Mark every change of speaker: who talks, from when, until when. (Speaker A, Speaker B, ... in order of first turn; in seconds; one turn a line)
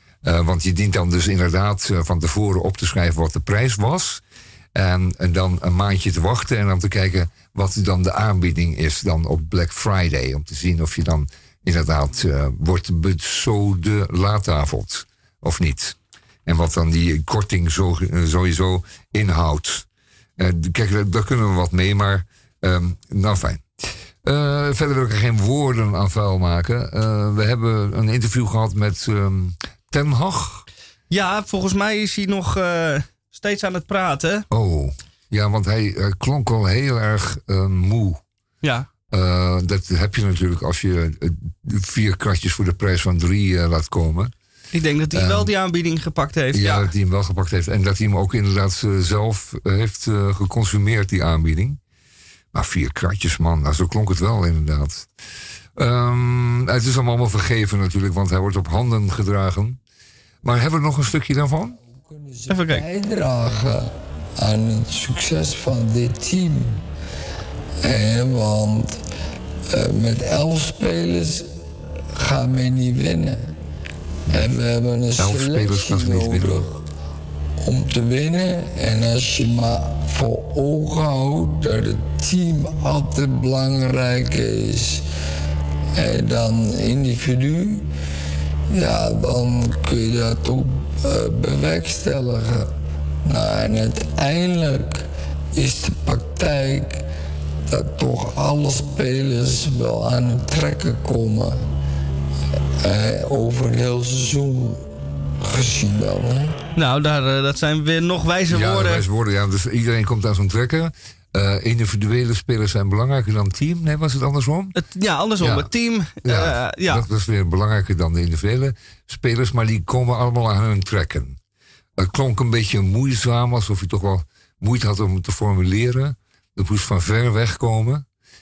Speaker A: 0.2-4.2
Speaker A: 4.7-19.9
Speaker A: 20.4-23.6
Speaker A: 24.2-30.6
Speaker B: 31.1-34.5
Speaker A: 34.5-38.2
Speaker B: 38.6-38.9
Speaker A: 39.1-44.3
Speaker B: 44.7-46.9
Speaker A: 45.1-45.5
Speaker A: 46.5-51.8
Speaker A: 52.5-55.1
Speaker A: 55.8-59.8
Speaker A: 60.4-61.8
Speaker C: 62.0-66.8
Speaker B: 62.5-62.9
Speaker C: 67.8-69.0
Speaker C: 69.7-71.5
Speaker C: 72.1-73.5
Speaker C: 74.3-76.7
Speaker A: 75.2-76.6
Speaker C: 77.6-85.0
Speaker C: 85.9-87.9
Speaker C: 88.7-92.7
Speaker C: 93.2-97.0
Speaker C: 97.7-101.6
Speaker C: 102.8-104.9
Speaker C: 105.4-106.5
Speaker B: 106.7-109.0
Speaker A: 108.5-114.8
Speaker B: 114.7-117.0
Speaker A: 115.4-115.7
Speaker A: 116.2-121.4
Speaker A: 122.0-128.1